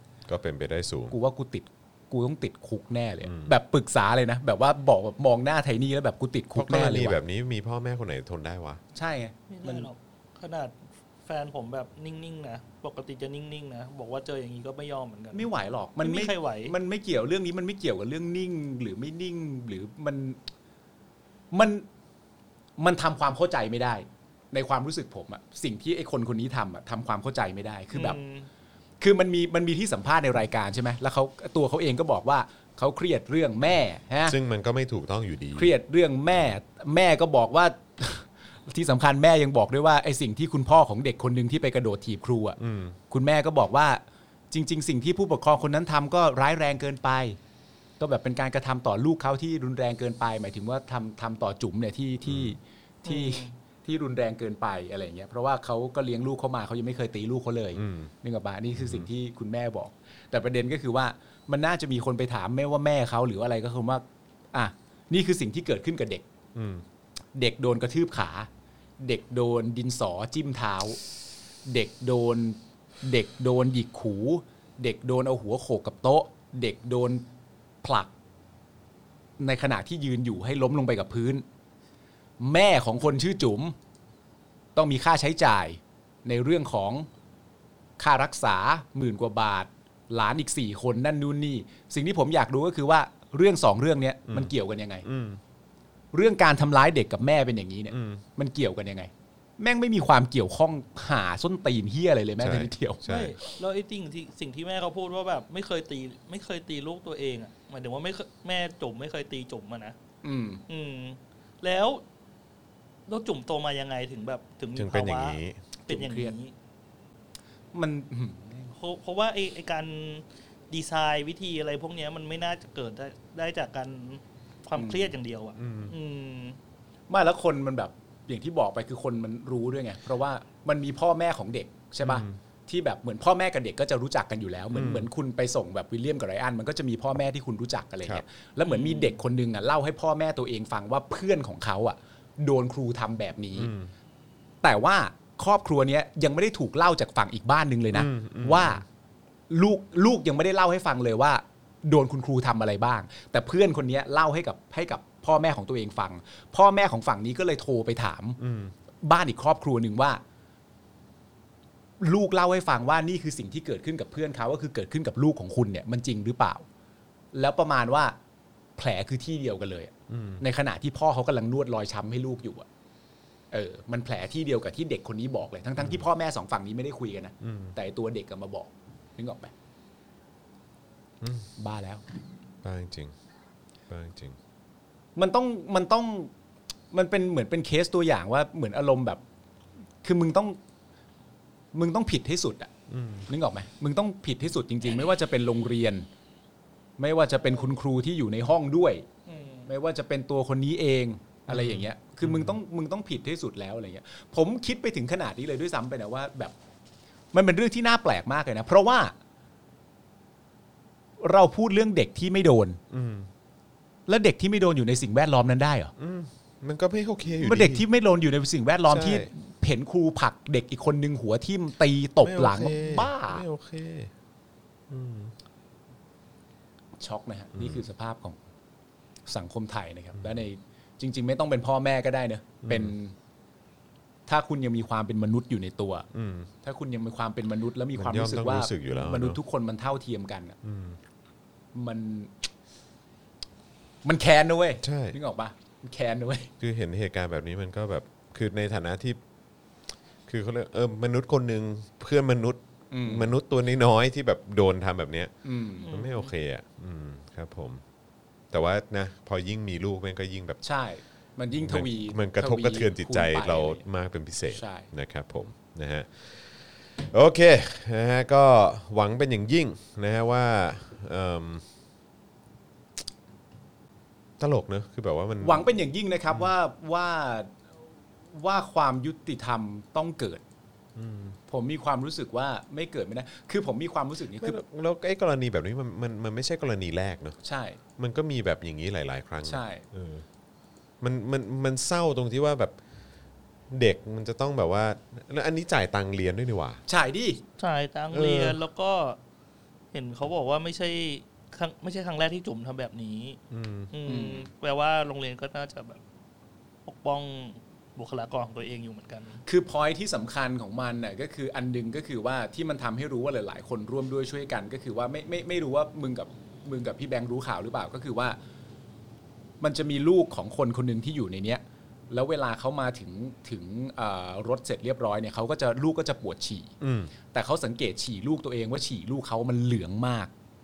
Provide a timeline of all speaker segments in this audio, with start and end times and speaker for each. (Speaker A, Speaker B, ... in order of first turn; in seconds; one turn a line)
Speaker A: 0.3-1.1
Speaker B: 1.1-7.2
Speaker A: 3.2-3.5
Speaker A: 6.5-8.8
Speaker B: 8.9-9.9
Speaker C: 9.5-10.7
Speaker C: 11.2-15.5
Speaker B: 15.3-20.4
Speaker C: 16.0-16.7
Speaker B: 21.5-21.9
Speaker B: 22.8-28.2
Speaker C: 27.9-28.5
Speaker B: 29.0-34.4
Speaker A: 34.2-35.7
Speaker B: 35.5-42.6
Speaker A: 42.6-43.0
Speaker B: 43.1-47.4
Speaker B: 48.0-66.2
Speaker A: 52.2-52.5
Speaker C: 53.1-53.5
Speaker A: 57.7-58.1
Speaker A: 58.7-59.1
Speaker A: 66.5-66.8
Speaker B: 67.3-68.5
Speaker B: 69.0-71.0
Speaker B: 71.7-77.2
Speaker B: 77.8-78.1
Speaker B: 79.4-81.4
Speaker B: 82.4-83.8
Speaker B: 84.8-87.1
Speaker B: 88.0-95.0
Speaker A: 94.3-94.5
Speaker A: 95.0-95.4
Speaker B: 96.1-103.0
Speaker A: 97.9-98.2
Speaker A: 102.4-103.3
Speaker C: 103.0-110.0
Speaker B: 110.2-110.6
Speaker C: 110.7-112.0
Speaker C: 113.1-116.5
Speaker A: 114.8-115.6
Speaker B: 115.9-116.3
Speaker B: 117.7-118.7
Speaker C: 118.8-126.6
Speaker B: 124.8-125.1
Speaker A: 125.6-125.9
Speaker B: 127.1-143.7
Speaker A: 132.0-132.4
Speaker A: 134.7-135.1
Speaker C: 138.6-139.2
Speaker A: 143.6-143.9
Speaker B: 144.6-148.8
Speaker A: 147.9-148.8
Speaker B: 149.5-158.4
Speaker A: 158.4-158.7
Speaker B: 159.0-160.2
Speaker B: 162.0-166.7
Speaker B: 167.3-168.2
Speaker B: 168.8-172.7
Speaker A: 170.1-170.4
Speaker B: 173.5-179.5
Speaker A: 175.8-176.1
Speaker A: 177.4-177.7
Speaker A: 181.2-181.5
Speaker B: 181.6-182.0
Speaker A: 182.6-183.1
Speaker A: 183.9-184.4
Speaker B: 185.2-186.3
Speaker B: 186.9-189.2
Speaker B: 190.0-190.6
Speaker B: 191.7-192.7
Speaker A: 192.9-193.3
Speaker B: 193.3-196.1
Speaker B: 197.0-199.1
Speaker C: 199.3-199.7
Speaker B: 199.7-206.6
Speaker A: 201.5-202.6
Speaker B: 207.3-209.1
Speaker B: 211.2-212.8
Speaker A: 212.9-213.3
Speaker B: 214.1-215.9
Speaker A: 216.0-217.9
Speaker B: 217.4-223.4
Speaker A: 218.9-219.3
Speaker A: 222.2-224.1
Speaker A: 224.9-225.3
Speaker B: 227.0-228.4
Speaker A: 227.5-227.8
Speaker B: 229.3-233.1
Speaker A: 230.2-230.4
Speaker A: 232.6-232.9
Speaker B: 234.3-236.1
Speaker A: 236.1-236.5
Speaker B: 236.6-240.6
Speaker A: 237.9-239.4
Speaker A: 240.6-241.0
Speaker B: 241.7-242.3
Speaker B: 244.0-246.5
Speaker A: 244.8-245.2
Speaker A: 246.6-249.2
Speaker A: 250.3-255.3
Speaker B: 252.9-253.3
Speaker B: 255.4-255.9
Speaker C: 255.8-256.3
Speaker A: 255.9-257.8
Speaker A: 258.5-260.6
Speaker B: 260.6-263.8
Speaker A: 261.6-271.7
Speaker B: 264.5-264.9
Speaker A: 274.4-275.7
Speaker B: 275.4-277.5
Speaker B: 278.3-280.4
Speaker A: 280.9-281.4
Speaker B: 281.5-284.6
Speaker A: 284.3-287.4
Speaker B: 287.4-287.8
Speaker A: 288.0-290.2
Speaker B: 289.4-289.8
Speaker A: 291.0-292.8
Speaker A: 293.7-296.8
Speaker B: 296.9-297.4
Speaker C: 297.6-299.2
Speaker A: 298.1-298.6
Speaker C: 299.9-303.4
Speaker A: 303.5-303.9
Speaker C: 303.9-306.0
Speaker B: 304.1-304.5
Speaker C: 306.9-309.4
Speaker B: 309.4-318.4
Speaker B: 319.6-326.8
Speaker A: 326.8-327.1
Speaker B: 327.3-330.3